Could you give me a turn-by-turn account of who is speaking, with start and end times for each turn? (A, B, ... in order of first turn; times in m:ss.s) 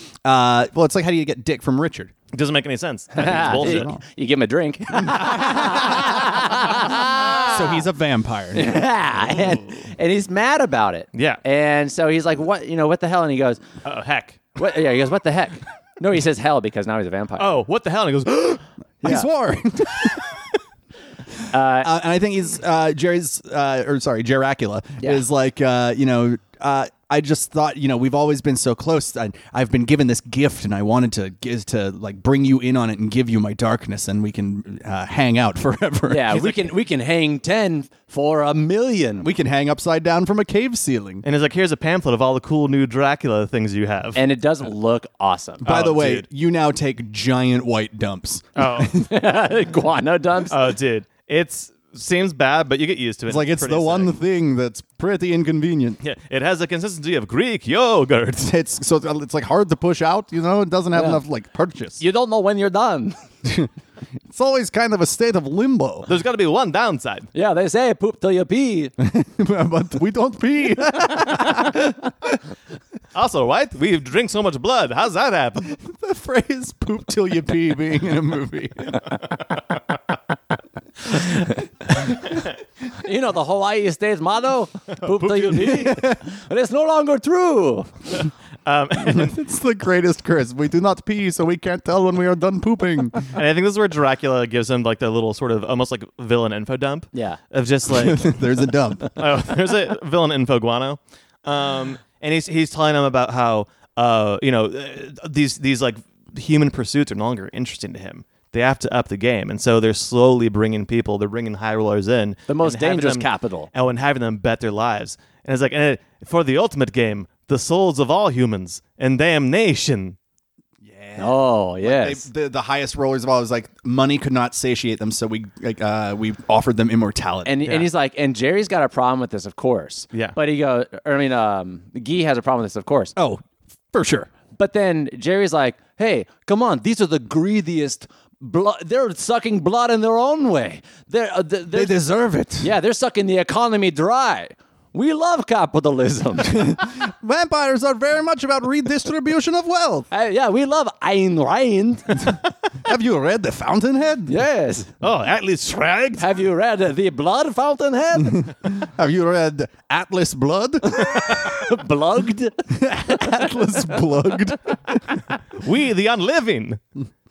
0:00.2-0:02.1 A
0:02.3-0:03.9 B
0:03.2-0:07.8 C
0:03.2-0:04.0 A
0:05.0-0:06.4 A
0:07.3-0:08.8 A
0:08.5-0:13.6 C
0:11.1-0:11.4 B
0:13.8-0:14.5 B
0:14.6-0:17.6 C
0:17.4-0:18.6 B
0:19.0-0:20.2 A
0:21.5-0:21.9 C
0:21.8-0:36.6 A
0:36.1-0:39.3 C
0:39.2-0:41.2 A
0:41.2-0:44.2 B
0:44.1-0:45.6 C
0:45.6-0:49.0 A
0:45.6-0:46.2 B
0:48.6-0:48.9 B
0:48.9-0:50.6 C
0:50.5-0:54.2 B
0:53.3-0:56.0 A
0:56.0-0:58.5 B
0:58.4-1:02.0 A
1:00.9-1:01.2 C
1:02.0-1:03.2 C
1:03.4-1:03.7 A
1:04.3-1:06.1 A
1:06.1-1:07.3 B
1:07.3-1:08.9 C
1:09.0-1:12.1 A
1:13.1-1:15.7 B
1:15.6-1:19.2 A
1:22.9-1:28.0 C
1:25.0-1:25.9 B
1:25.6-1:26.2 A
1:28.1-1:29.3 B
1:29.0-1:33.3 A
1:33.3-1:38.4 B
1:37.1-1:37.4 C
1:37.9-1:39.2 A
1:39.1-2:00.2 B
1:52.5-1:53.7 C
2:00.8-2:07.8 A
2:01.2-2:02.3 C
2:07.4-2:13.1 C
2:13.2-2:14.3 A
2:14.5-2:22.0 C
2:21.7-2:22.7 A
2:22.6-2:26.8 C
2:26.4-2:30.1 A
2:30.1-2:32.4 C
2:32.2-2:34.4 A
2:34.3-2:34.9 C
2:35.0-2:36.3 B
2:36.2-2:38.5 C
2:38.2-2:41.5 A
2:41.2-2:44.0 C
2:42.7-2:45.2 A
2:45.5-2:46.8 B